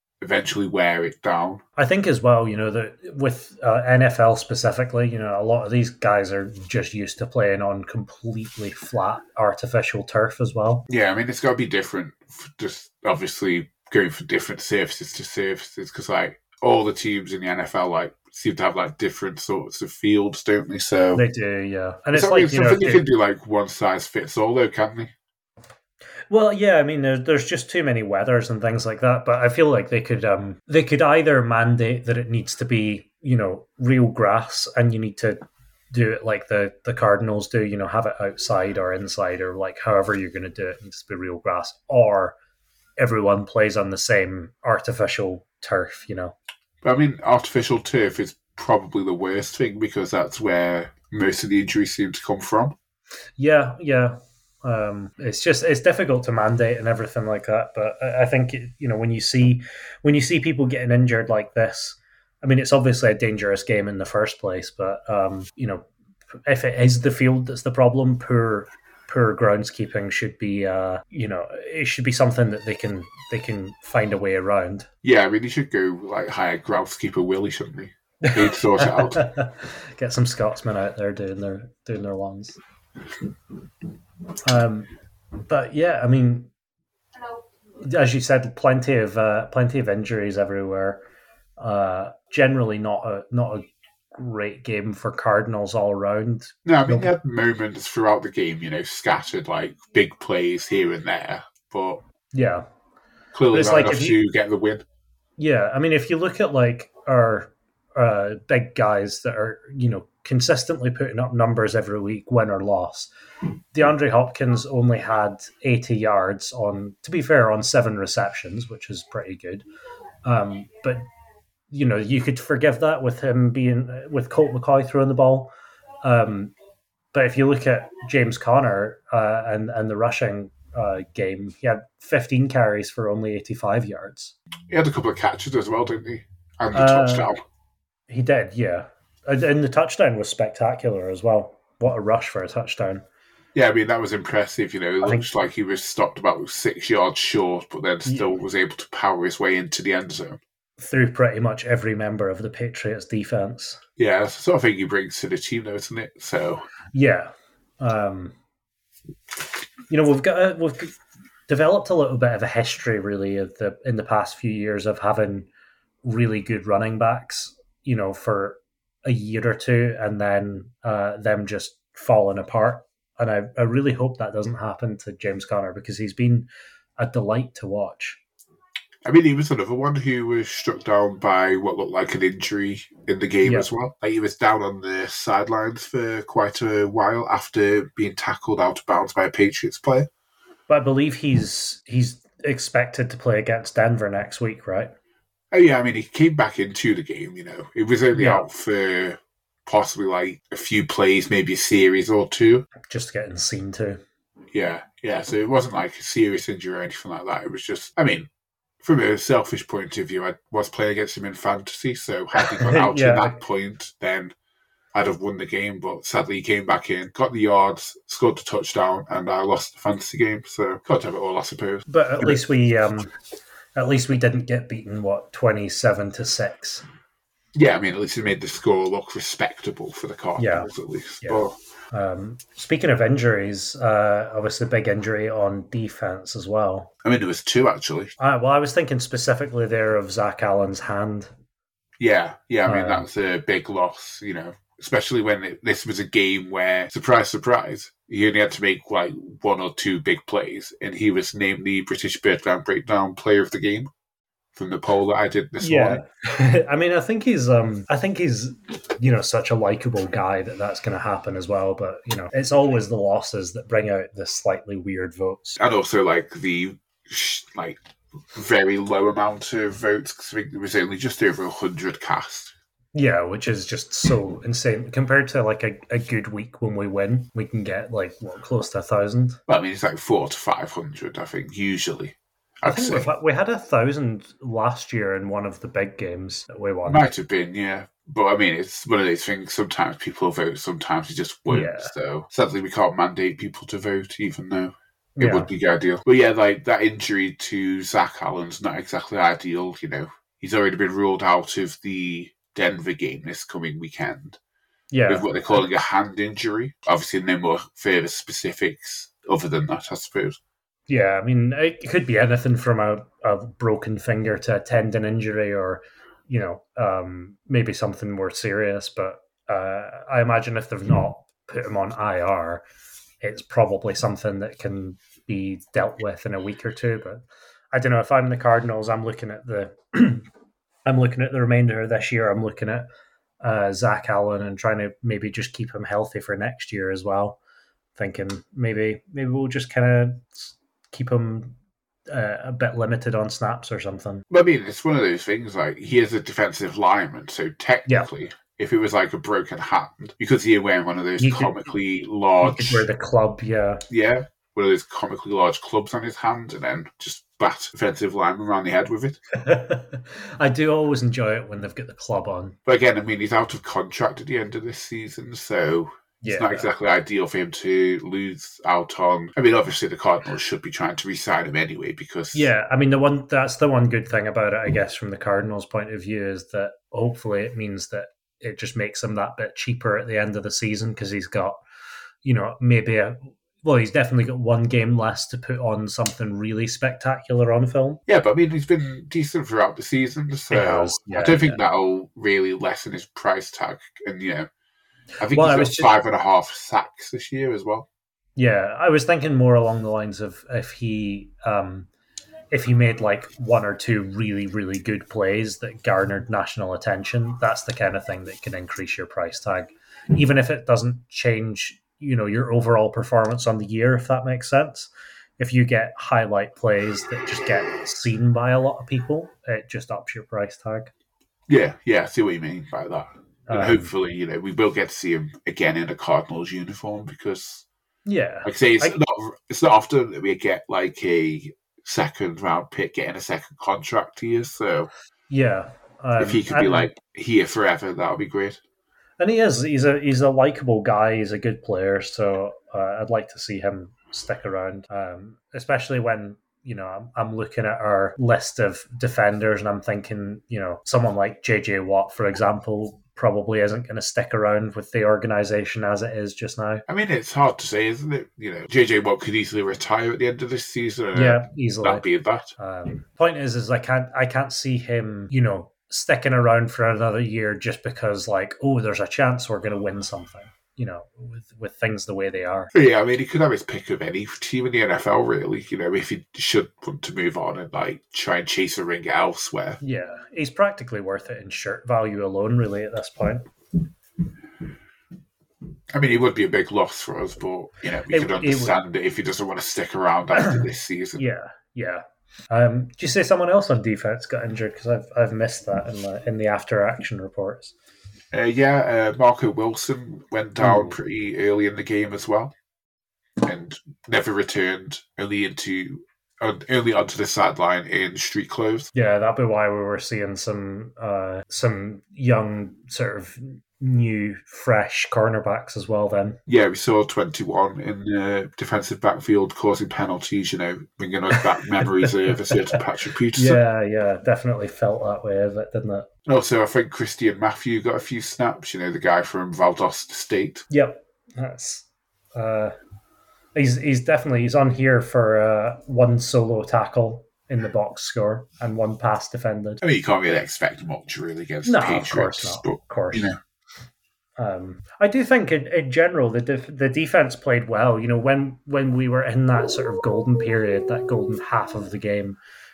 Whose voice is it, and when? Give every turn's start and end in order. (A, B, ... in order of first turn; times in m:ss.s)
0:00.2-0:01.6 A
0:01.8-0:10.9 B
0:10.9-0:21.2 A
0:21.2-0:23.0 B
0:22.1-0:25.1 A
0:26.3-0:35.4 B
0:35.9-0:42.4 B
0:43.0-0:46.4 B
0:46.8-0:52.8 A
0:53.4-1:05.9 B
1:06.5-1:14.9 B
1:15.0-1:19.2 A
1:18.2-1:22.6 B
1:24.4-1:24.9 B
1:25.5-1:26.5 B
1:27.8-1:31.0 B
1:31.6-1:37.1 B
1:36.6-1:42.0 A
1:42.3-1:42.6 B
1:43.3-1:44.8 A
1:43.5-1:44.2 B
1:45.4-1:53.1 B
1:53.7-1:59.6 B
2:00.2-2:01.0 B
2:01.7-2:05.5 B
2:06.0-2:06.5 B
2:07.1-2:14.4 B
2:14.7-2:17.4 A
2:16.7-2:17.3 B
2:18.1-2:23.0 B
2:23.5-2:30.4 A
2:28.1-2:28.4 B
2:30.8-2:33.8 B
2:34.0-2:36.7 A
2:36.9-2:38.4 B
2:39.9-2:40.9 B
2:41.5-2:45.5 B
2:46.0-2:56.5 B
2:57.0-2:58.2 B
2:59.0-3:10.1 A
3:10.7-3:14.9 B
3:15.5-3:22.7 A
3:18.1-3:18.4 B
3:22.9-3:24.0 B
3:24.5-3:28.3 A
3:28.8-3:34.3 A
3:32.4-3:33.4 B
3:34.9-3:42.4 A
3:41.9-3:43.1 B
3:43.8-3:46.8 B
3:47.6-3:51.6 A
3:50.4-3:50.7 B
3:51.2-3:56.9 B
3:57.0-3:58.1 A
3:58.2-4:01.3 B
4:02.0-4:13.9 A
4:02.7-4:03.1 B
4:14.6-4:16.0 A
4:15.6-4:25.6 B
4:25.6-4:27.8 A
4:28.3-4:32.5 A
4:32.9-4:39.4 B
4:39.5-4:43.1 A
4:42.7-4:47.1 B
4:46.9-5:04.4 A
4:51.5-4:51.9 B
4:55.2-4:55.5 B
5:04.9-5:05.6 B
5:05.1-5:10.4 A
5:10.9-5:22.7 B
5:23.2-5:30.3 B
5:30.9-5:32.9 B
5:33.4-5:37.4 B
5:38.0-5:41.6 B
5:42.1-5:44.2 B
5:44.3-5:52.9 A
5:51.2-5:51.6 B
5:52.4-5:53.8 B
5:53.9-5:59.2 A
5:59.3-6:02.6 B
6:02.7-6:12.5 A
6:06.2-6:06.7 B
6:12.3-6:21.6 B
6:22.2-6:28.0 B
6:28.1-6:34.5 A
6:30.5-6:31.6 B
6:35.2-6:37.9 A
6:35.3-6:35.9 B
6:38.4-6:41.9 B
6:42.5-7:00.9 B
7:01.5-7:07.6 A
7:03.5-7:03.9 B
7:08.1-7:09.0 B
7:08.4-7:14.9 A
7:15.3-7:16.9 B
7:16.2-7:18.6 A
7:19.2-7:36.8 B
7:36.9-7:42.5 A
7:41.1-7:42.0 B
7:42.6-7:52.7 B
7:52.7-7:59.8 A
7:59.8-8:03.5 B
8:05.9-8:11.2 A
8:08.1-8:08.8 B
8:10.4-8:10.6 B
8:11.2-8:17.7 B
8:18.3-8:22.5 A
8:20.6-8:21.0 B
8:23.4-8:28.9 A
8:28.9-8:36.4 B
8:36.5-8:43.6 A
8:41.8-8:42.4 B
8:43.4-8:46.1 B
8:46.3-8:50.7 A
8:50.7-8:52.7 B
8:53.6-8:59.8 B
8:59.8-9:03.4 A
9:01.6-9:03.3 B
9:04.4-9:12.4 B